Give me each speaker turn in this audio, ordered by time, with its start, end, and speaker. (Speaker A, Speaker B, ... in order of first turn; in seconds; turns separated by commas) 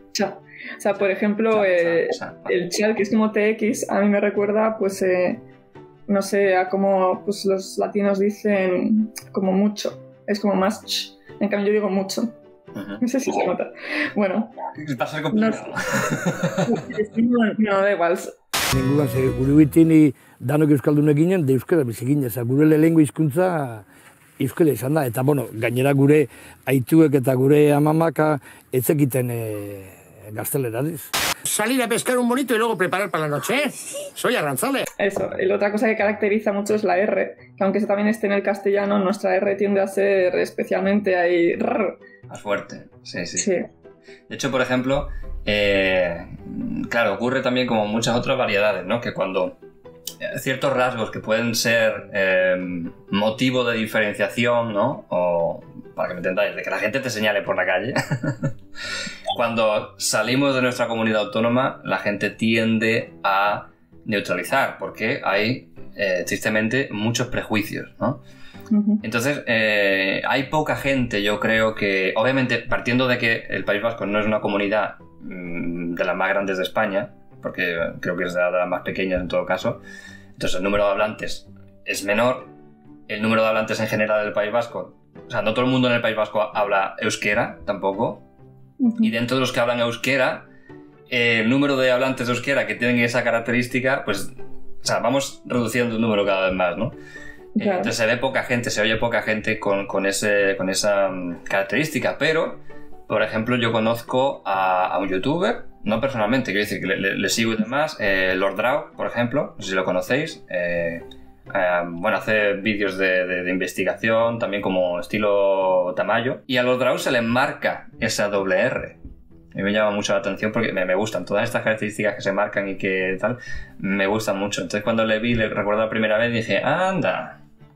Speaker A: 0.1-5.4, Speaker B: 0.9-2.5, Speaker A: 6.1-12.3, Speaker B: 12.7-13.0, Speaker A: 13.0-14.6, Speaker B: 14.7-16.8, Speaker A: 15.3-15.8, Speaker A: 16.6-18.3, Speaker C: 18.7-23.9, Speaker C: 24.4-31.1, Speaker D: 31.4-34.9, Speaker A: 35.0-42.0, Speaker B: 42.3-43.5, Speaker A: 43.4-43.6, Speaker B: 44.3-49.5, Speaker B: 50.2-58.5, Speaker B: 59.3-68.2, Speaker A: 68.7-69.0, Speaker B: 69.0-79.8, Speaker B: 80.4-82.5, Speaker B: 83.1-88.2, Speaker A: 88.8-89.1, Speaker B: 89.0-90.5, Speaker B: 91.1-96.9, Speaker A: 97.6-97.9, Speaker B: 97.6-119.0, Speaker B: 119.5-127.4